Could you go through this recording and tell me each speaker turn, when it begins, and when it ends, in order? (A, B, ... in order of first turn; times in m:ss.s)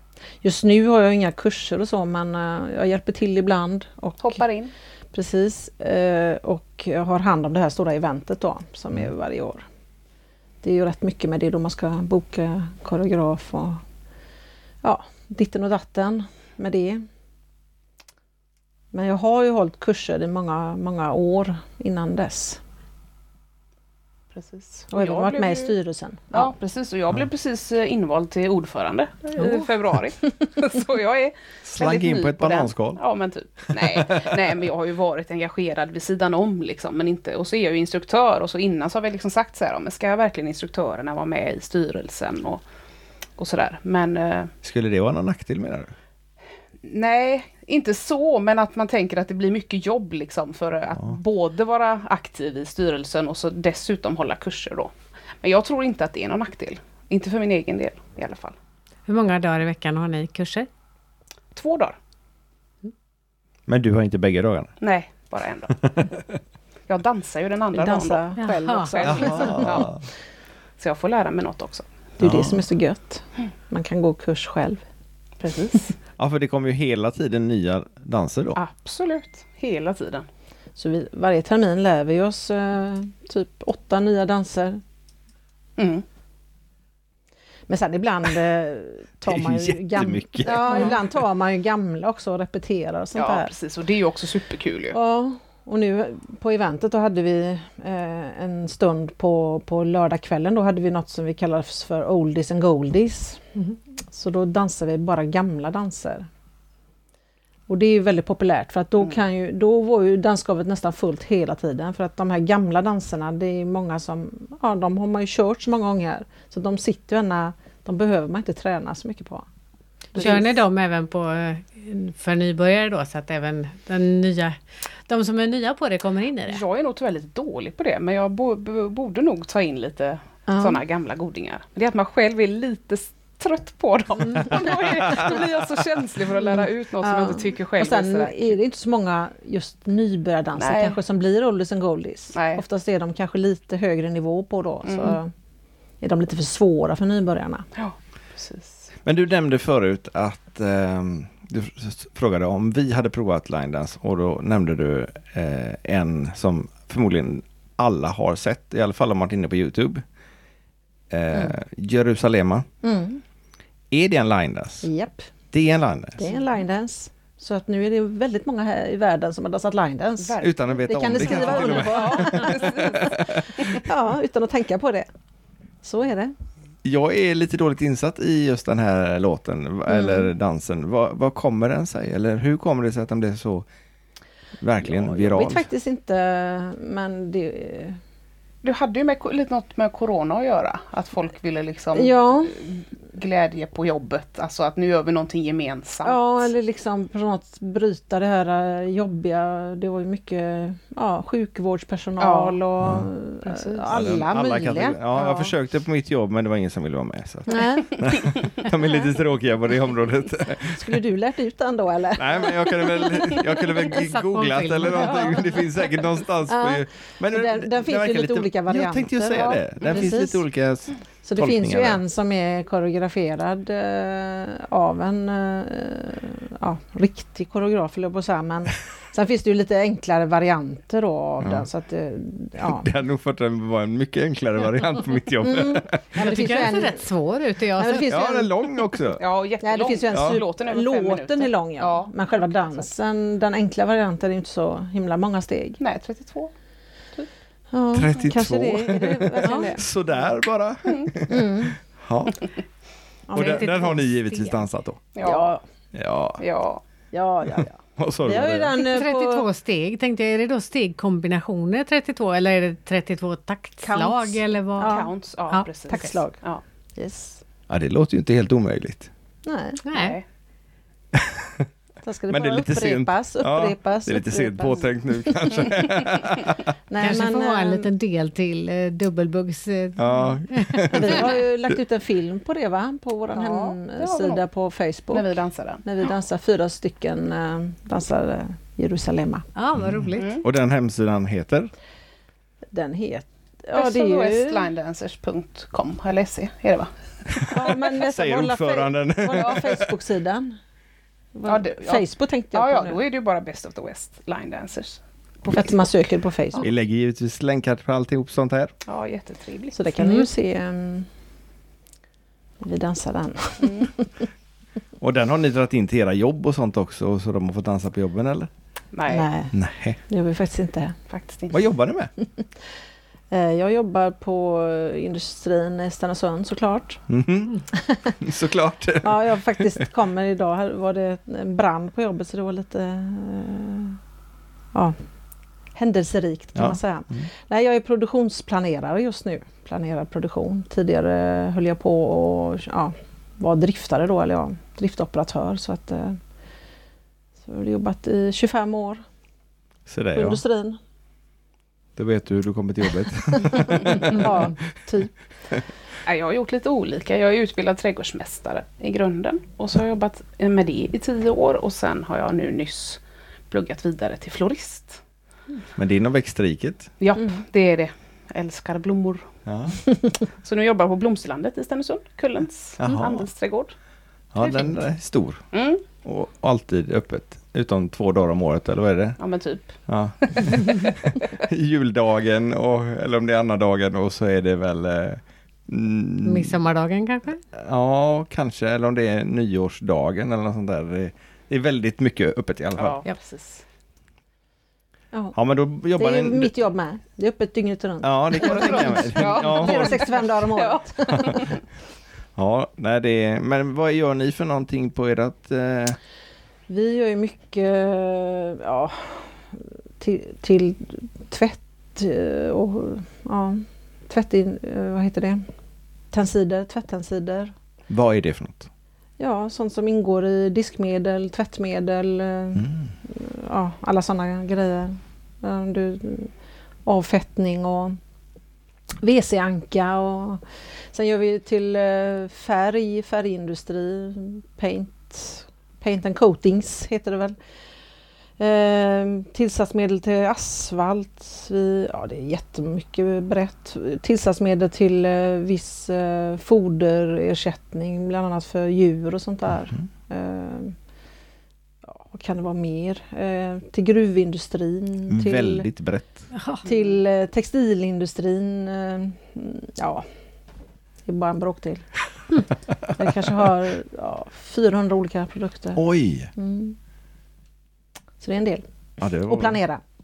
0:00.4-0:04.4 A
0:04.2-0:04.7 B
0:05.1-0:09.6 A
0:10.6-0:13.8 A
0:14.8-0:17.0 A
0:18.9-0:22.6 A
0:24.3-0:25.8 B
0:24.9-0:26.5 A
0:26.3-0:42.6 B
0:29.4-0:29.7 C
0:31.6-0:33.0 D
0:33.7-0:34.4 D
0:43.4-0:44.5 B
0:44.6-0:45.9 D
0:46.8-0:58.6 B
0:59.1-1:00.7 C
1:01.6-1:02.0 B
1:03.7-1:04.7 D
1:04.8-1:05.8 B
1:05.8-1:06.2 D
1:06.9-1:10.0 B
1:07.7-1:09.9 A
1:08.4-1:09.1 C
1:09.0-1:10.0 D
1:10.8-1:11.9 B
1:12.2-1:14.8 A
1:12.2-1:12.6 D
1:15.4-1:15.9 B
1:16.2-1:18.6 D
1:18.6-1:20.3 B
1:20.8-1:24.8 A
1:25.8-1:26.0 B
1:27.7-1:33.5 A
1:29.2-1:31.1 D
1:33.2-1:35.0 B
1:34.9-1:43.5 A
1:44.1-1:46.3 A
1:47.7-1:59.4 A
2:00.1-2:00.4 B
2:00.1-2:00.5 A
2:00.2-2:06.6 C
2:06.5-2:18.6 B
2:10.5-2:10.8 A
2:14.7-2:15.3 D
2:17.0-2:25.3 A
2:20.6-2:21.0 B
2:22.3-2:22.6 B
2:24.8-2:25.2 B
2:26.0-2:27.7 A
2:27.8-2:28.9 B
2:29.0-2:40.0 D
2:41.1-2:42.7 D
2:42.8-2:43.2 A
2:43.9-2:44.9 D
2:44.8-2:45.3 A
2:45.5-2:46.2 D
2:46.2-2:53.0 A
2:50.2-2:53.7 B
2:50.4-2:53.6 D
2:53.6-2:55.1 A
2:55.8-2:56.4 A
2:56.8-3:03.6 D
2:59.9-3:00.3 A
3:04.6-3:05.7 D
3:04.8-3:08.0 A
3:08.6-3:16.5 B
3:11.9-3:12.6 A
3:16.0-3:25.5 A
3:22.2-3:22.6 B
3:22.8-3:23.1 D
3:23.4-3:23.9 B
3:23.9-3:31.0 D
3:27.5-3:28.1 A
3:30.6-3:33.4 A
3:32.2-3:42.0 D
3:33.8-3:35.6 C
3:35.0-3:35.4 B
3:36.5-3:40.4 A
3:41.2-3:52.9 A
3:51.4-3:51.6 D
3:52.6-3:56.2 D
3:55.4-3:57.1 A
3:56.2-3:58.1 C
3:57.8-3:58.6 A
3:58.1-3:59.2 D
3:59.2-4:02.9 B
3:59.6-4:05.8 A
4:00.1-4:00.4 D
4:05.8-4:06.5 B
4:07.7-4:09.8 A
4:07.9-4:12.4 D
4:10.9-4:11.1 B
4:11.3-4:11.8 A
4:13.3-4:14.1 A
4:13.3-4:15.1 D
4:13.4-4:14.6 C
4:15.1-4:15.5 B
4:15.2-4:15.6 A
4:15.9-4:16.4 D
4:16.4-4:16.8 B
4:17.1-4:19.4 A
4:17.6-4:18.8 D
4:18.8-4:25.0 C
4:23.8-4:25.1 A
4:24.8-4:26.6 B
4:25.5-4:26.0 C
4:25.9-4:26.4 A
4:27.0-4:27.4 A
4:27.7-4:29.1 D
4:29.4-4:29.8 A
4:29.9-4:30.2 C
4:29.9-4:30.2 B
4:31.1-4:31.7 D
4:32.0-4:35.7 A
4:32.3-4:36.7 D
4:36.9-4:37.9 A
4:37.0-4:40.9 C
4:40.0-4:41.4 D
4:40.9-4:49.4 A
4:43.3-4:44.4 B
4:45.1-4:45.8 B
4:49.6-4:50.4 C
4:49.8-4:51.7 D
4:50.2-4:50.4 B
4:52.7-4:54.7 A
4:53.7-4:56.9 B
4:57.4-5:00.6 A
4:57.5-4:59.9 D
5:01.4-5:03.0 A
5:01.5-5:05.8 B
5:05.5-5:06.6 A
5:06.6-5:08.7 D
5:08.9-5:09.8 B
5:09.7-5:11.1 A
5:10.0-5:10.2 C
5:12.6-5:14.1 A
5:13.6-5:13.9 B
5:15.0-5:18.5 D
5:18.9-5:19.3 B
5:19.1-5:19.6 A
5:19.5-5:20.0 D
5:20.1-5:21.0 A
5:21.1-5:21.6 B
5:21.5-5:22.1 D
5:22.2-5:22.5 A
5:23.3-5:27.0 A
5:27.1-5:29.8 D
5:27.8-5:28.2 A
5:29.0-5:34.0 A
5:35.8-5:46.2 A
5:36.6-5:37.3 D
5:47.4-5:49.0 A
5:49.9-5:50.4 D
5:50.1-5:50.8 A
5:52.0-5:54.6 D
5:53.5-5:55.1 A
5:56.1-6:05.0 B
6:05.8-6:06.9 D
6:07.0-6:09.3 B
6:09.4-6:09.8 D
6:10.4-6:13.7 B
6:12.8-6:13.3 D
6:14.3-6:15.4 D
6:14.4-6:14.7 B
6:15.5-6:15.8 B
6:16.0-6:19.2 D
6:19.2-6:21.2 B
6:19.9-6:26.6 D
6:26.2-6:27.4 C
6:27.5-6:33.0 D
6:32.8-6:33.6 B
6:35.4-6:36.5 D
6:35.9-6:41.5 A
6:38.0-6:40.0 D
6:38.4-6:41.6 B
6:42.4-6:46.0 D
6:46.7-6:55.4 A
6:56.1-6:57.5 A
6:57.9-6:58.7 D
6:59.2-7:06.3 A
7:02.6-7:02.9 D
7:06.9-7:08.0 A
7:09.0-7:17.4 A
7:18.4-7:30.8 A
7:31.9-7:35.7 A
7:35.1-7:36.3 D
7:36.4-7:36.6 C
7:36.6-7:40.1 A
7:41.1-7:41.9 A
7:42.9-7:45.8 A
7:45.8-7:46.3 D
7:46.4-7:46.8 A
7:48.2-7:48.6 A
7:49.0-7:49.6 D
7:49.2-7:49.8 A